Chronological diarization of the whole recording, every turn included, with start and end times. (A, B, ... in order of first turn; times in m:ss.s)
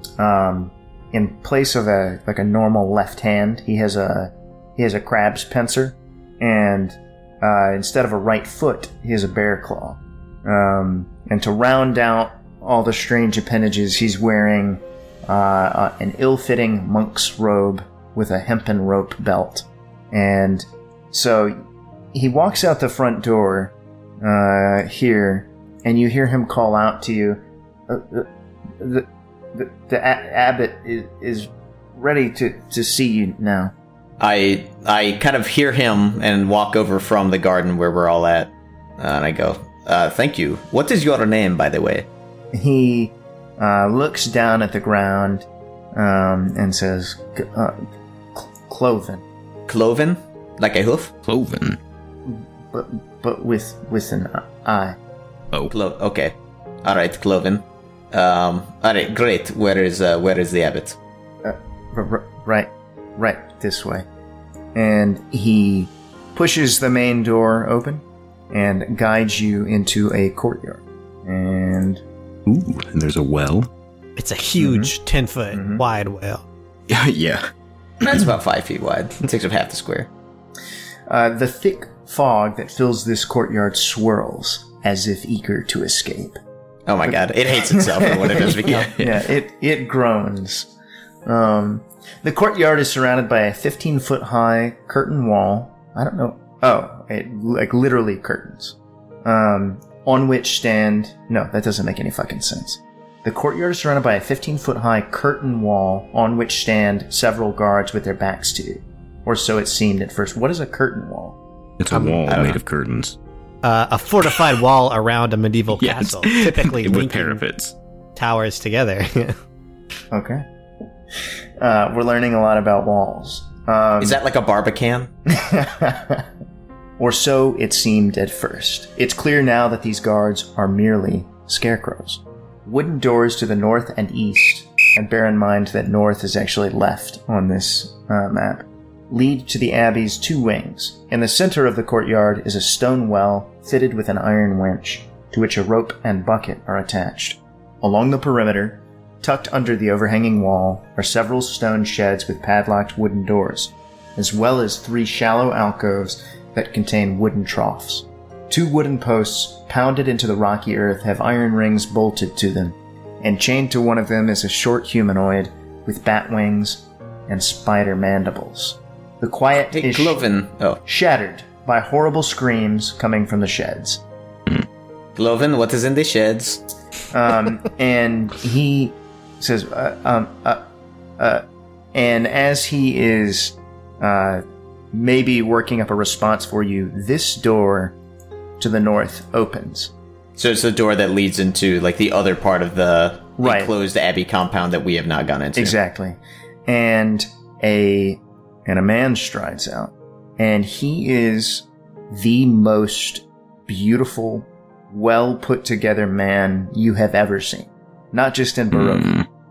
0:00.2-0:21.6 A
0:22.1-0:33.7 A
0:34.2-0:42.1 B
0:42.5-0:49.2 A
0:49.7-0:51.1 B
0:51.2-0:51.8 C
0:52.3-0:55.0 A
0:55.7-1:01.0 B
1:01.4-1:04.1 A
1:04.8-1:12.0 A
1:12.5-1:13.7 C
1:14.2-1:16.4 D
1:14.6-1:14.9 A
1:15.5-1:15.8 A
1:16.9-1:17.5 C
1:18.0-1:20.1 B
1:21.1-1:26.4 A
1:26.9-1:29.2 B
1:27.7-1:30.7 A
1:31.3-1:51.4 A
1:51.8-1:53.2 C
1:51.9-1:52.2 A
1:52.3-1:52.6 B
1:53.6-1:57.4 D
1:55.8-1:57.7 C
1:58.2-1:59.4 D
2:00.1-2:00.4 A
2:01.6-2:04.2 A
2:04.0-2:05.1 B
2:05.3-2:06.3 A
2:07.0-2:50.2 A
2:49.7-2:50.8 B
2:50.8-2:54.0 A
2:55.2-2:56.6 B
2:57.1-3:00.6 A
3:01.2-3:08.0 A
3:08.6-3:09.9 A
3:10.4-3:15.8 B
3:13.4-3:13.7 A
3:15.6-3:29.2 A
3:28.7-3:29.2 C